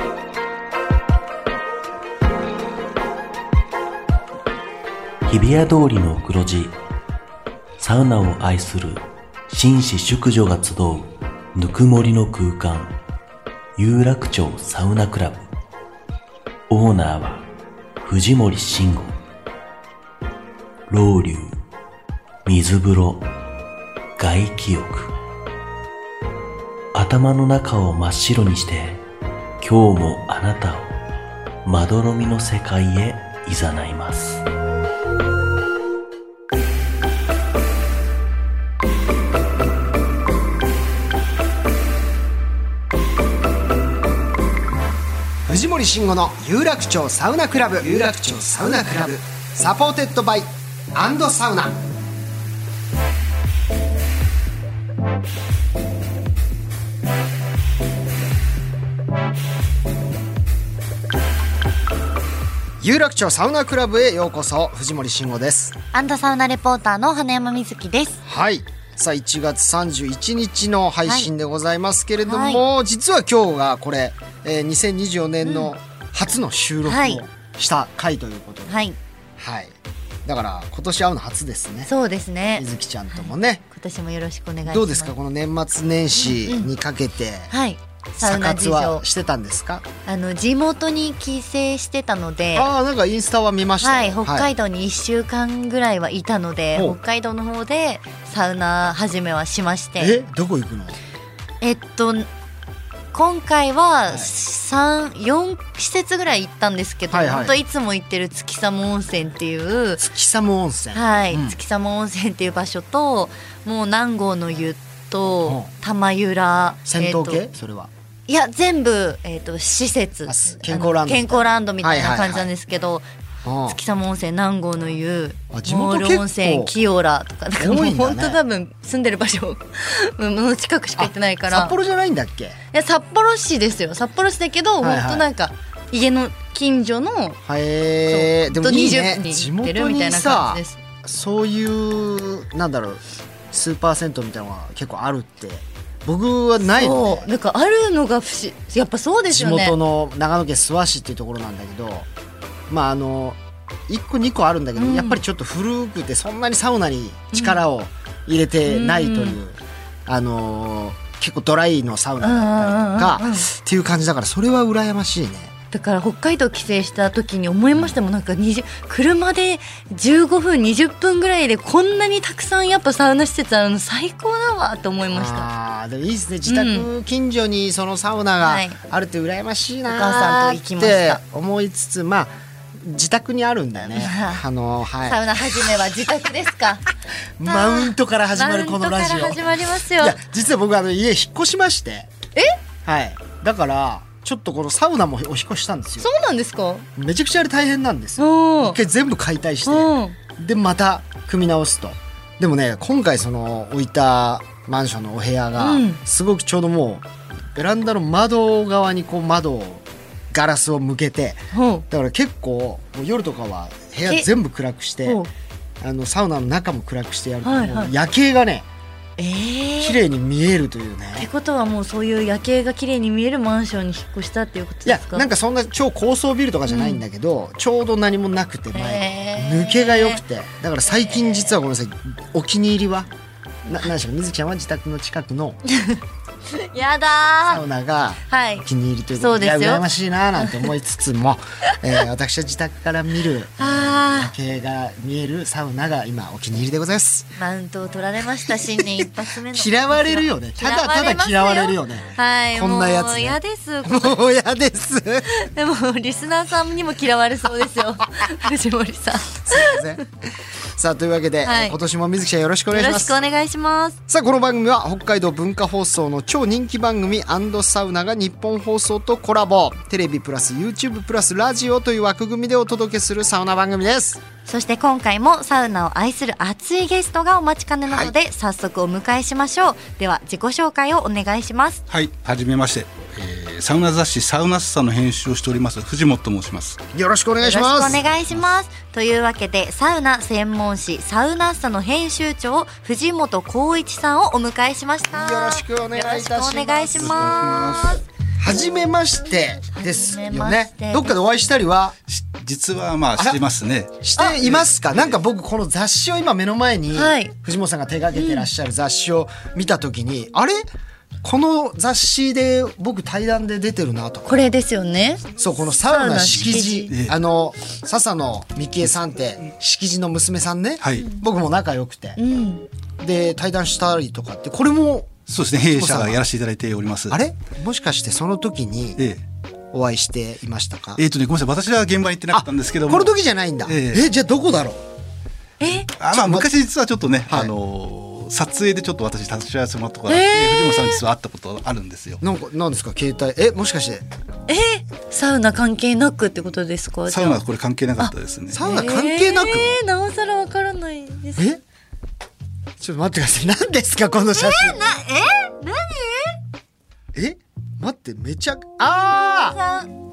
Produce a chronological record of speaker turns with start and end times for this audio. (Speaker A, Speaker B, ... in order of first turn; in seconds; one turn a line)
Speaker A: 5.2-6.8
Speaker A: 7.8-12.9
Speaker A: 13.8-15.5
Speaker A: 16.7-17.5
Speaker A: 18.0-19.2
Speaker A: 20.9-21.6
Speaker A: 22.4-23.3
Speaker A: 24.2-25.1
Speaker A: 26.9-29.0
Speaker A: 29.6-31.0
Speaker A: 31.6-34.4
Speaker B: 45.5-51.9
Speaker B: 62.8-65.8
Speaker C: 65.9-68.2
Speaker B: 68.2-78.7
Speaker C: 72.2-72.6
Speaker C: 75.4-75.7
Speaker C: 76.8-77.2
Speaker C: 78.7-79.0
Speaker B: 79.4-81.9
Speaker C: 81.8-85.2
Speaker B: 82.5-83.6
Speaker B: 84.7-87.5
Speaker C: 86.2-86.7
Speaker C: 87.5-89.0
Speaker B: 88.2-89.9
Speaker C: 90.0-92.7
Speaker B: 92.5-94.5
Speaker C: 93.8-100.2
Speaker B: 100.0-101.0
Speaker C: 101.6-102.3
Speaker C: 103.1-110.0
Speaker B: 107.1-107.5
Speaker B: 110.0-111.5
Speaker C: 110.9-117.5
Speaker B: 115.4-115.7
Speaker B: 116.8-117.9
Speaker C: 118.3-123.1
Speaker B: 120.3-122.5
Speaker B: 123.4-123.8
Speaker C: 123.7-131.8
Speaker B: 125.5-126.7
Speaker B: 127.6-128.4
Speaker B: 131.0-132.6
Speaker C: 132.7-137.4
Speaker B: 134.8-135.3
Speaker B: 137.4-147.3
Speaker C: 138.1-140.8
Speaker C: 146.8-149.8
Speaker B: 149.3-152.1
Speaker B: 152.7-165.5
Speaker C: 154.8-155.2
Speaker C: 157.3-157.6
Speaker C: 158.7-159.4
Speaker C: 162.2-163.5
Speaker C: 165.7-175.5
Speaker B: 175.1-185.2
Speaker C: 176.4-176.9
Speaker C: 178.4-178.8
Speaker C: 179.9-181.2
Speaker C: 183.9-184.4
Speaker C: 185.0-186.9
Speaker B: 187.4-192.1
Speaker C: 187.4-190.2
Speaker B: 192.8-196.1
Speaker C: 196.0-196.9
Speaker B: 196.9-215.2
Speaker C: 198.2-198.8
Speaker C: 199.7-200.2
Speaker C: 205.6-206.0
Speaker C: 211.5-211.8
Speaker C: 215.0-215.3
Speaker B: 215.8-218.7
Speaker C: 217.4-217.9
Speaker C: 219.2-220.0
Speaker B: 219.8-221.3
Speaker C: 221.2-225.3
Speaker B: 224.8-233.1
Speaker C: 226.7-227.0
Speaker C: 228.7-230.2
Speaker C: 230.9-231.4
Speaker B: 233.7-235.6
Speaker C: 235.7-236.0
Speaker C: 236.5-237.6
Speaker B: 237.5-247.3
Speaker C: 238.3-239.8
Speaker C: 240.4-240.7
Speaker C: 243.6-244.3
Speaker C: 247.4-254.2
Speaker B: 248.5-255.3
Speaker C: 255.3-260.0
Speaker B: 259.4-260.0
Speaker B: 260.7-263.1
Speaker C: 261.4-261.8
Speaker C: 262.7-264.0
Speaker B: 264.1-274.2
Speaker C: 274.4-281.8
Speaker D: 281.9-286.8
Speaker B: 286.9-288.2
Speaker C: 287.4-298.0
Speaker B: 295.1-297.4
Speaker D: 297.1-297.9
Speaker B: 298.4-301.9
Speaker C: 299.7-301.1
Speaker D: 302.1-305.1
Speaker B: 304.0-310.6
Speaker C: 306.9-307.3
Speaker C: 308.1-308.5
Speaker B: 311.2-314.5
Speaker C: 314.3-315.2
Speaker B: 315.4-322.2
Speaker C: 315.8-316.9
Speaker D: 316.3-317.1
Speaker D: 320.8-321.1
Speaker C: 322.2-322.6
Speaker B: 323.0-325.1
Speaker D: 325.3-327.2
Speaker B: 325.7-326.2
Speaker B: 327.1-329.0
Speaker D: 329.0-329.2
Speaker B: 329.7-331.0
Speaker D: 330.9-334.0
Speaker B: 332.3-334.8
Speaker C: 335.6-335.9
Speaker D: 336.0-342.2
Speaker B: 336.1-336.5
Speaker B: 337.3-337.5
Speaker C: 340.1-341.0
Speaker B: 342.2-344.0
Speaker C: 344.5-347.4
Speaker D: 347.1-348.6
Speaker C: 348.0-351.4
Speaker B: 348.5-349.8
Speaker B: 352.8-354.8
Speaker C: 354.3-356.4
Speaker B: 357.1-359.6
Speaker C: 359.1-359.9